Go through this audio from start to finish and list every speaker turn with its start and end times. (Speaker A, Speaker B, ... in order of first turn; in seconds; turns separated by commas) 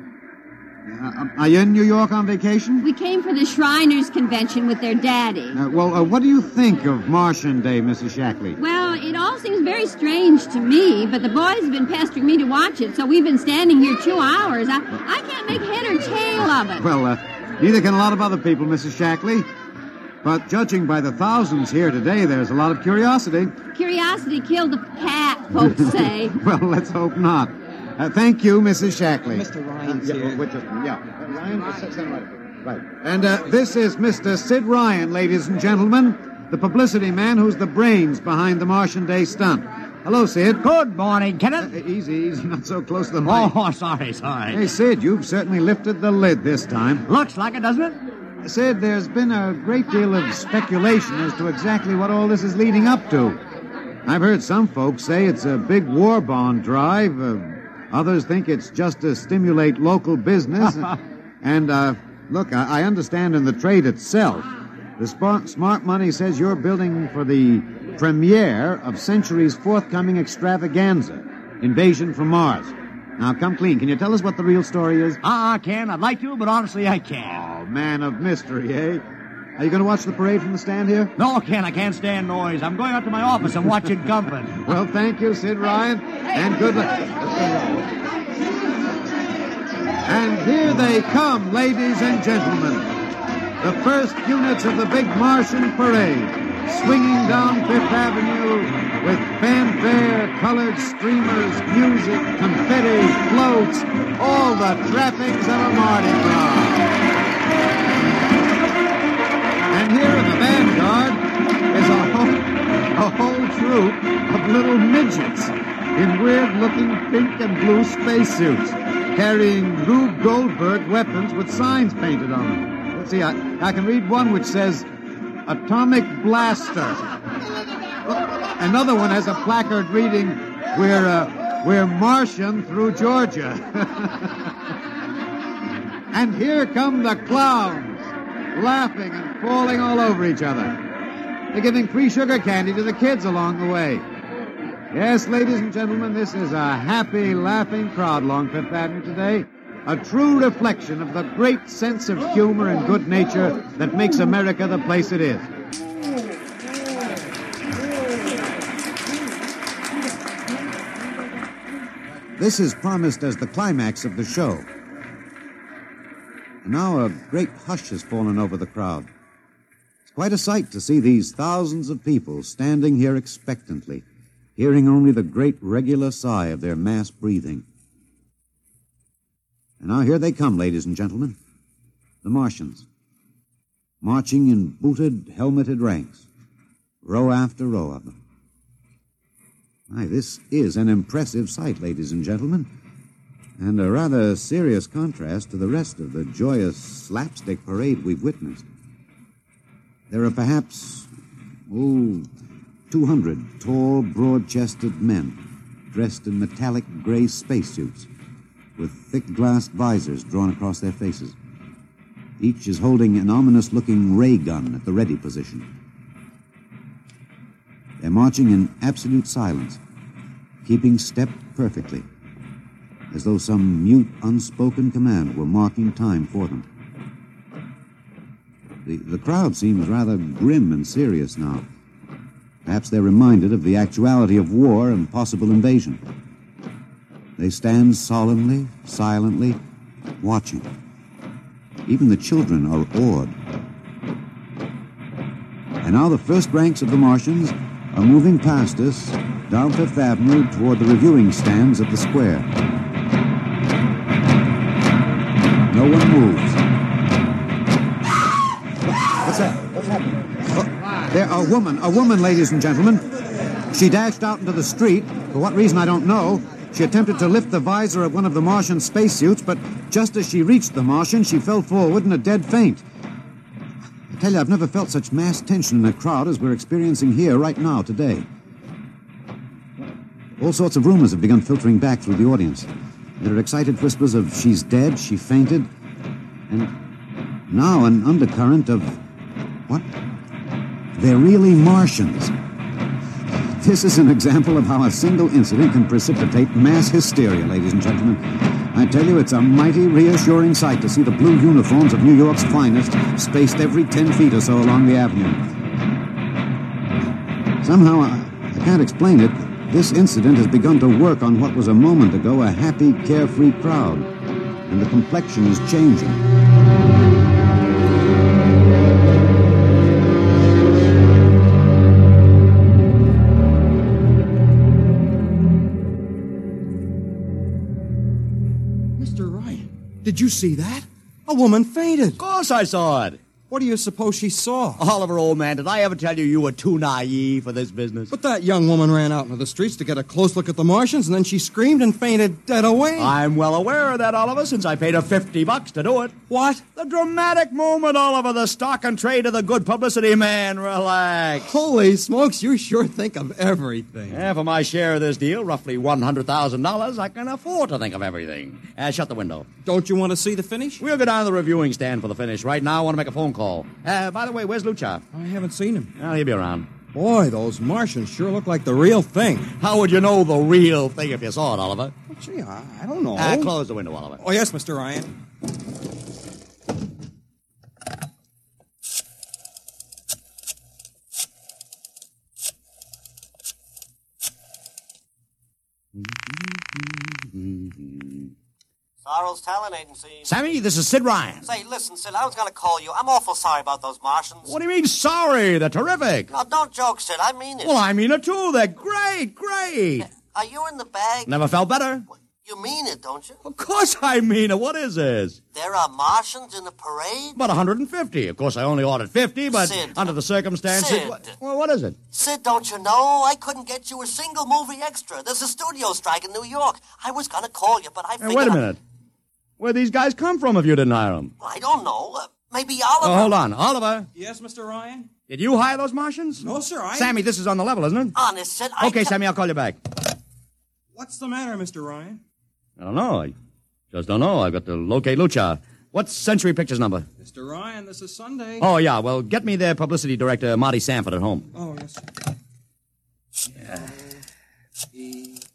Speaker A: 0.9-2.9, Speaker B: 2.8-5.6, Speaker A: 5.5-8.6, Speaker B: 8.6-16.8, Speaker A: 16.8-19.5, Speaker A: 20.2-23.6, Speaker B: 23.7-26.4, Speaker A: 25.6-40.6, Speaker C: 29.3-30.4, Speaker D: 40.6-41.7, Speaker A: 41.6-43.5, Speaker D: 43.2-44.6, Speaker A: 44.5-47.0, Speaker D: 47.0-48.0, Speaker A: 48.4-53.4, Speaker A: 54.0-75.2, Speaker D: 75.2-77.4, Speaker A: 77.3-79.0, Speaker A: 79.6-81.1, Speaker D: 81.2-84.6, Speaker A: 84.7-87.8, Speaker A: 90.0-92.9, Speaker A: 93.6-106.9, Speaker A: 109.7-124.9, Speaker A: 125.4-127.0, Speaker A: 128.6-134.5, Speaker A: 136.1-138.0, Speaker A: 138.5-140.8, Speaker A: 141.5-144.0, Speaker A: 144.9-155.5, Speaker A: 162.4-164.7, Speaker A: 166.6-169.1, Speaker A: 170.1-174.0, Speaker A: 174.6-177.6, Speaker A: 179.8-181.4, Speaker A: 182.2-182.8, Speaker A: 184.0-186.2, Speaker A: 187.0-188.1, Speaker A: 189.9-192.7, Speaker A: 193.6-198.7, Speaker A: 200.1-201.1, Speaker A: 201.7-202.3, Speaker A: 202.9-205.4, Speaker A: 205.9-208.1, Speaker A: 208.8-211.3, Speaker A: 212.4-215.7, Speaker A: 218.0-219.8, Speaker A: 220.6-222.1, Speaker A: 223.1-226.7, Speaker A: 228.8-231.6, Speaker A: 232.6-236.0, Speaker A: 237.4-239.6, Speaker A: 240.2-240.7, Speaker A: 241.9-243.3, Speaker A: 245.8-252.5, Speaker A: 255.7-256.6, Speaker A: 259.0-263.1, Speaker A: 263.7-272.8, Speaker A: 274.1-278.2, Speaker A: 280.4-282.7, Speaker A: 283.2-285.7, Speaker A: 287.5-289.0, Speaker A: 290.9-292.3, Speaker A: 293.6-305.4, Speaker A: 307.6-314.1, Speaker A: 314.7-316.2, Speaker C: 329.0-332.2, Speaker D: 332.2-333.2, Speaker C: 333.5-334.8, Speaker D: 334.8-338.1, Speaker C: 338.1-343.2, Speaker D: 343.0-346.2, Speaker C: 346.3-346.6, Speaker D: 346.7-351.6, Speaker C: 351.4-354.3, Speaker D: 354.1-359.5, Speaker C: 359.6-360.8, Speaker D: 360.8-365.0, Speaker C: 365.1-365.9, Speaker D: 366.0-366.7, Speaker C: 366.9-369.5, Speaker D: 369.5-371.9, Speaker C: 372.1-373.5, Speaker D: 373.1-374.2, Speaker C: 374.2-375.1, Speaker D: 385.9-388.3, Speaker E: 389.0-390.3, Speaker D: 390.2-391.4, Speaker E: 391.4-394.5, Speaker D: 394.4-396.3, Speaker E: 396.3-397.7, Speaker D: 397.6-400.1, Speaker E: 400.1-401.3, Speaker D: 401.3-402.1, Speaker E: 402.1-403.4, Speaker D: 403.4-405.4, Speaker E: 405.5-407.4, Speaker D: 407.4-412.0, Speaker E: 409.5-410.1, Speaker E: 410.7-411.3, Speaker E: 412.1-418.6, Speaker D: 418.2-418.8, Speaker D: 419.6-421.3, Speaker E: 421.4-423.3, Speaker D: 423.0-424.1, Speaker C: 424.1-425.1, Speaker D: 425.3-428.1, Speaker C: 426.4-427.2, Speaker E: 428.1-429.1, Speaker D: 428.8-429.8, Speaker C: 430.9-432.2, Speaker D: 432.8-433.3, Speaker D: 433.9-437.1, Speaker C: 437.2-438.7, Speaker D: 438.6-441.5, Speaker C: 441.5-442.0, Speaker C: 445.0-445.3